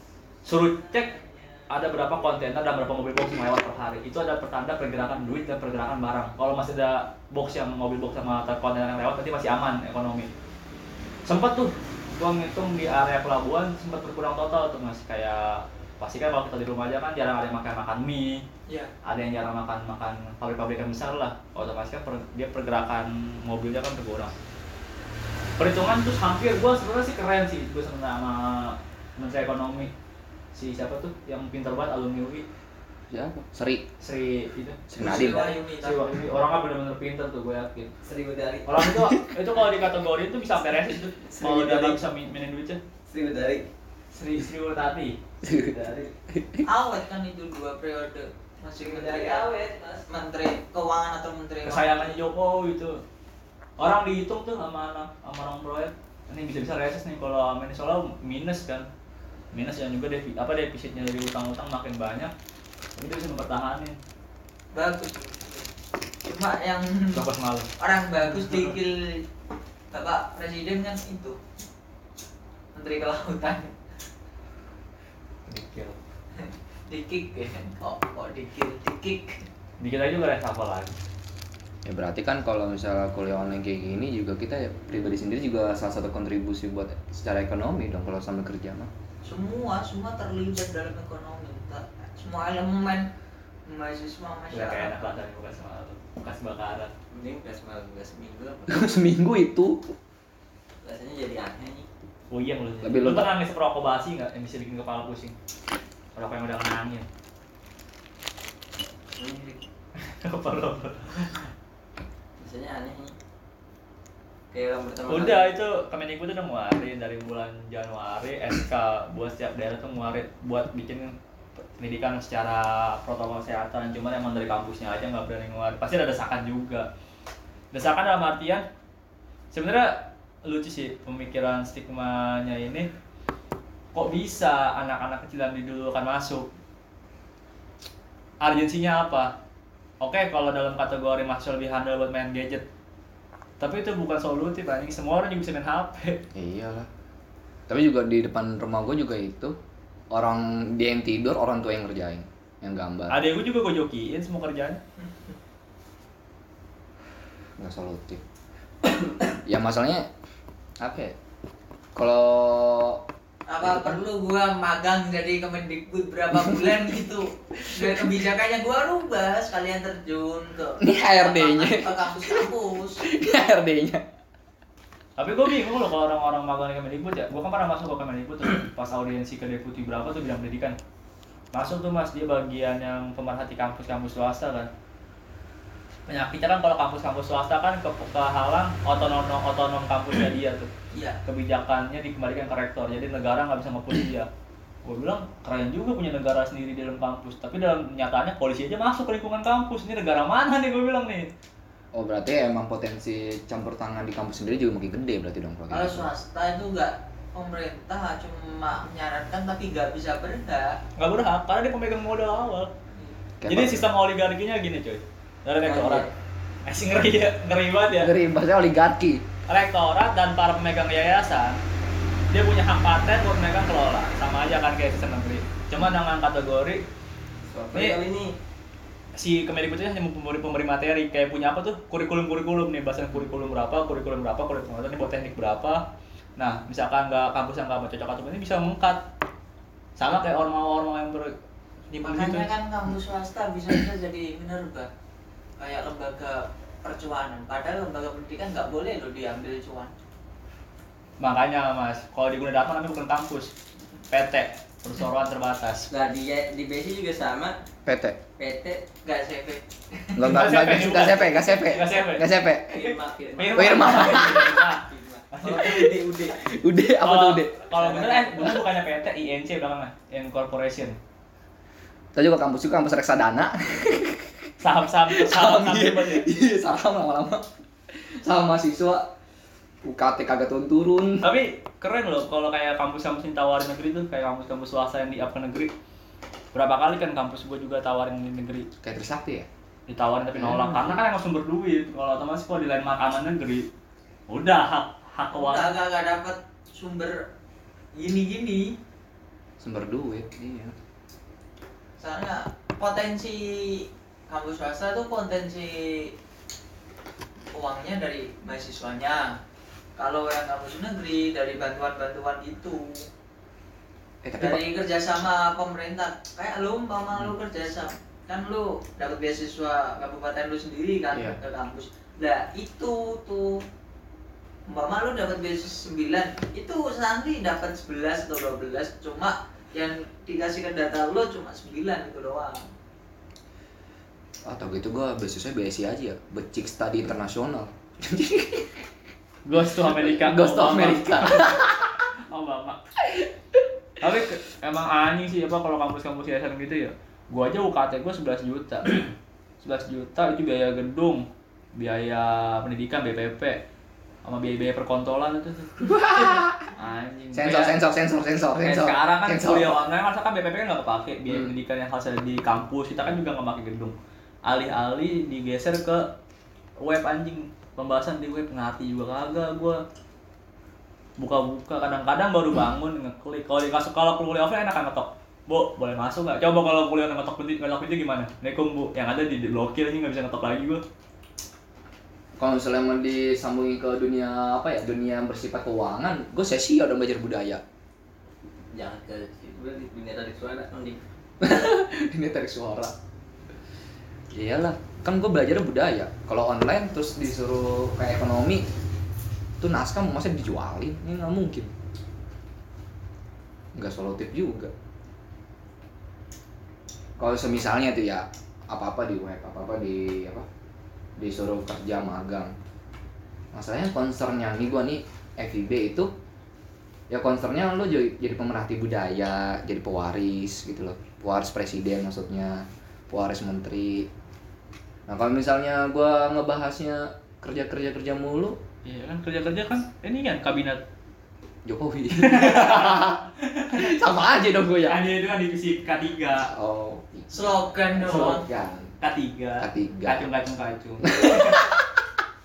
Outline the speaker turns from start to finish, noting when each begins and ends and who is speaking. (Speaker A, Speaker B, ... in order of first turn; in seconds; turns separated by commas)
Speaker A: 0.4-1.2, Speaker B: 0.9-1.6, Speaker A: 1.7-10.3, Speaker A: 11.2-18.5, Speaker A: 19.0-24.3, Speaker A: 25.6-29.9, Speaker A: 30.5-32.5, Speaker C: 33.1-33.9, Speaker A: 34.0-37.9, Speaker C: 34.9-35.5, Speaker B: 35.0-36.0, Speaker D: 38.0-38.7, Speaker A: 38.7-42.8, Speaker C: 38.9-39.3, Speaker D: 41.3-42.0, Speaker D: 43.1-43.7, Speaker A: 44.1-45.2, Speaker C: 45.4-45.8, Speaker D: 45.5-46.1, Speaker C: 46.3-46.7, Speaker B: 46.6-49.5, Speaker D: 48.8-50.1, Speaker B: 50.1-52.1, Speaker A: 51.6-53.0, Speaker A: 53.8-58.9, Speaker A: 59.5-62.3, Speaker A: 63.0-64.0, Speaker B: 64.7-65.7, Speaker B: 66.2-67.2, Speaker A: 67.1-67.7, Speaker B: 67.8-69.2, Speaker B: 69.9-71.4, Speaker B: 72.7-73.7, Speaker A: 75.5-76.0, Speaker B: 76.4-79.5, Speaker A: 79.8-81.0, Speaker C: 81.8-88.9, Speaker B: 89.2-93.1, Speaker B: 93.7-95.0, Speaker A: 94.5-96.9, Speaker D: 97.1-98.9, Speaker C: 98.7-99.8, Speaker D: 100.8-101.9, Speaker A: 102.3-105.3, Speaker C: 102.8-103.3, Speaker A: 106.2-107.1, Speaker D: 109.2-109.6, Speaker A: 110.0-111.5, Speaker D: 112.4-113.2, Speaker D: 114.5-115.5, Speaker A: 115.1-121.2, Speaker A: 121.8-126.9, Speaker A: 127.7-128.7, Speaker A: 129.5-132.9, Speaker A: 133.9-136.5, Speaker A: 138.4-139.3, Speaker A: 140.0-142.7, Speaker A: 143.6-146.2, Speaker C: 146.3-146.9, Speaker C: 147.7-149.6, Speaker C: 150.1-153.2, Speaker A: 153.1-154.8, Speaker B: 155.0-155.3, Speaker C: 157.6-158.2, Speaker C: 159.4-160.1, Speaker C: 160.8-161.2, Speaker C: 161.9-163.0, Speaker B: 163.5-173.1, Speaker C: 163.6-164.0, Speaker C: 167.7-168.1, Speaker C: 170.8-174.0, Speaker A: 175.2-180.8, Speaker A: 181.5-184.7, Speaker A: 186.1-190.7, Speaker B: 190.9-191.2, Speaker A: 191.2-194.3, Speaker A: 194.8-201.3, Speaker C: 201.9-206.1, Speaker B: 205.7-210.8, Speaker A: 211.0-212.7, Speaker C: 213.4-213.9, Speaker A: 213.5-216.1, Speaker D: 215.6-216.1, Speaker A: 216.7-218.1, Speaker C: 218.0-219.2, Speaker A: 219.5-221.6, Speaker A: 222.3-226.8, Speaker D: 227.5-228.3, Speaker A: 227.7-228.0, Speaker A: 229.2-235.8, Speaker A: 236.4-239.1, Speaker A: 240.0-241.3, Speaker B: 241.9-244.9, Speaker A: 241.9-242.4, Speaker B: 245.6-249.9, Speaker A: 251.2-253.5, Speaker A: 254.1-255.9, Speaker D: 255.9-257.6, Speaker C: 257.9-258.2, Speaker D: 258.4-258.8, Speaker B: 259.0-260.4, Speaker C: 260.2-262.8, Speaker A: 260.3-265.9, Speaker D: 262.6-266.5, Speaker C: 263.5-264.5, Speaker C: 266.4-267.6, Speaker A: 267.0-271.0, Speaker D: 267.8-268.6, Speaker C: 272.1-274.4, Speaker A: 274.6-276.3, Speaker C: 275.1-279.1, Speaker C: 279.8-281.3, Speaker A: 281.2-285.7, Speaker A: 286.5-288.7, Speaker C: 288.8-289.5, Speaker A: 289.9-293.7, Speaker C: 290.4-291.0, Speaker A: 294.3-295.7, Speaker B: 295.3-297.3, Speaker B: 297.9-298.8, Speaker C: 299.6-300.8, Speaker B: 302.0-306.1, Speaker B: 307.5-309.4, Speaker B: 310.0-313.1, Speaker C: 314.2-314.6, Speaker B: 314.4-323.6, Speaker C: 321.1-321.4, Speaker B: 324.7-332.7, Speaker C: 334.4-338.8, Speaker A: 339.4-342.8, Speaker C: 339.8-342.0, Speaker A: 344.0-349.1, Speaker A: 349.6-353.6, Speaker A: 354.2-357.8, Speaker C: 355.8-356.7, Speaker C: 357.3-359.8, Speaker A: 358.6-366.1, Speaker A: 366.8-369.8, Speaker A: 371.2-380.8, Speaker C: 382.4-387.6, Speaker D: 388.7-391.0, Speaker C: 391.4-393.0, Speaker C: 394.3-398.7, Speaker C: 399.6-401.7, Speaker C: 403.8-404.7, Speaker C: 407.2-410.5, Speaker C: 411.2-412.5, Speaker C: 413.5-416.1, Speaker C: 417.1-424.1, Speaker C: 425.1-428.6, Speaker A: 428.8-430.8, Speaker C: 431.6-435.0, Speaker A: 432.1-433.9, Speaker A: 434.9-436.5, Speaker C: 436.4-438.9, Speaker B: 437.3-438.5, Speaker A: 439.0-441.7, Speaker C: 439.6-440.3, Speaker C: 441.0-442.0